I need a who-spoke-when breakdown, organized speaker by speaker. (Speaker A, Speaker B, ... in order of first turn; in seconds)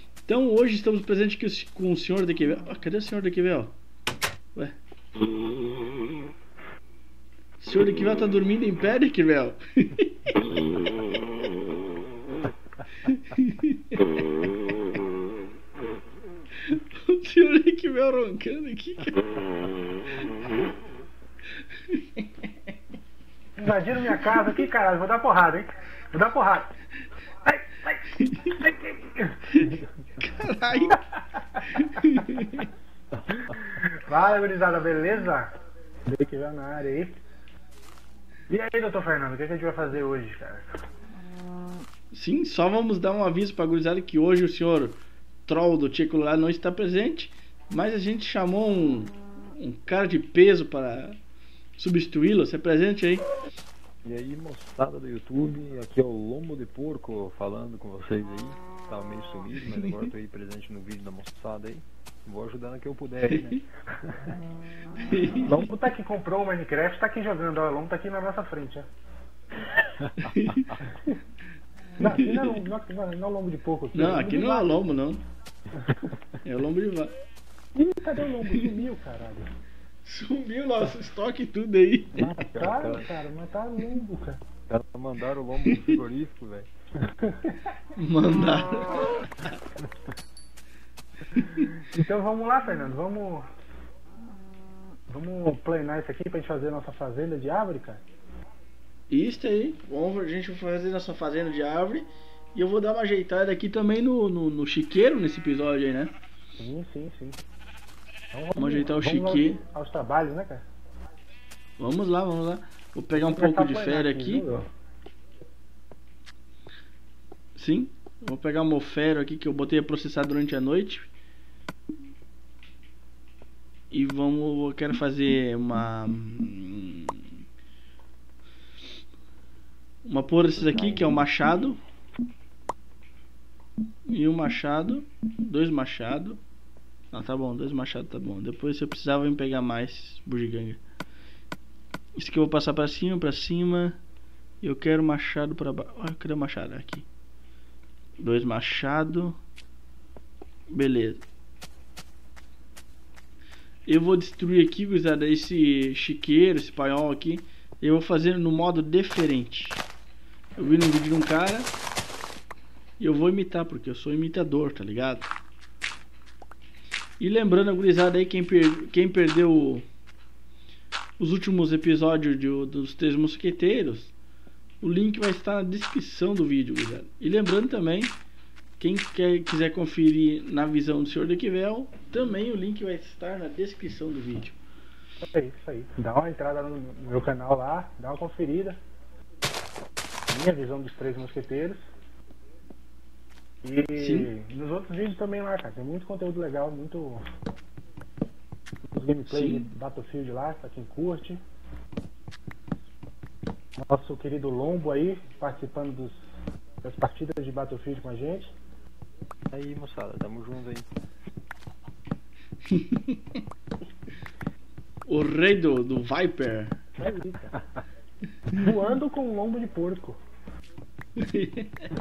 Speaker A: 0.3-3.8, 7.6-11.2, 13.0-15.0, 16.6-20.4, 21.9-22.3, 28.1-28.6, 29.5-31.0, 31.6-32.7, 42.1-51.2, 51.8-53.3, 63.3-63.6, 65.1-65.7, 70.2-70.8, 72.1-72.5, 73.9-75.2, 76.4-77.1, 80.0-82.3, 85.7-86.0, 88.0-89.6, 91.4-91.7, 99.1-106.1, 108.6-109.6, 111.8-114.5, 117.6-121.1, 123.9-127.3, 130.1-131.8, 134.1-136.4, 137.1-140.8, 142.2-144.0, 144.6-147.1, 148.2-149.4, 150.7-151.2, 153.9-159.8, 160.6-161.7, 163.0-165.3, 167.2-169.8, 171.2-174.1, 174.8-178.2, 178.8-184.6, 194.0-194.3, 199.3-199.7, 212.7-213.4, 215.1-216.8, 221.2-221.9
Speaker B: 23.6-26.7, 27.5-29.9, 31.4-32.3, 33.7-35.5, 36.1-37.2, 38.5-40.7, 65.5-68.9, 72.0-74.9, 77.8-79.5, 82.2-84.4, 87.1-87.7, 91.9-93.5, 95.1-98.0, 106.6-107.4, 108.3-110.7, 113.2-114.7, 185.3-188.8, 190.3-191.8, 193.6-197.2, 198.9-201.4, 203.8-206.2, 206.8-208.5, 217.0-217.6, 218.5-220.2
Speaker C: 54.0-64.3, 82.4-83.1, 84.7-86.7, 130.8-131.2, 209.5-210.9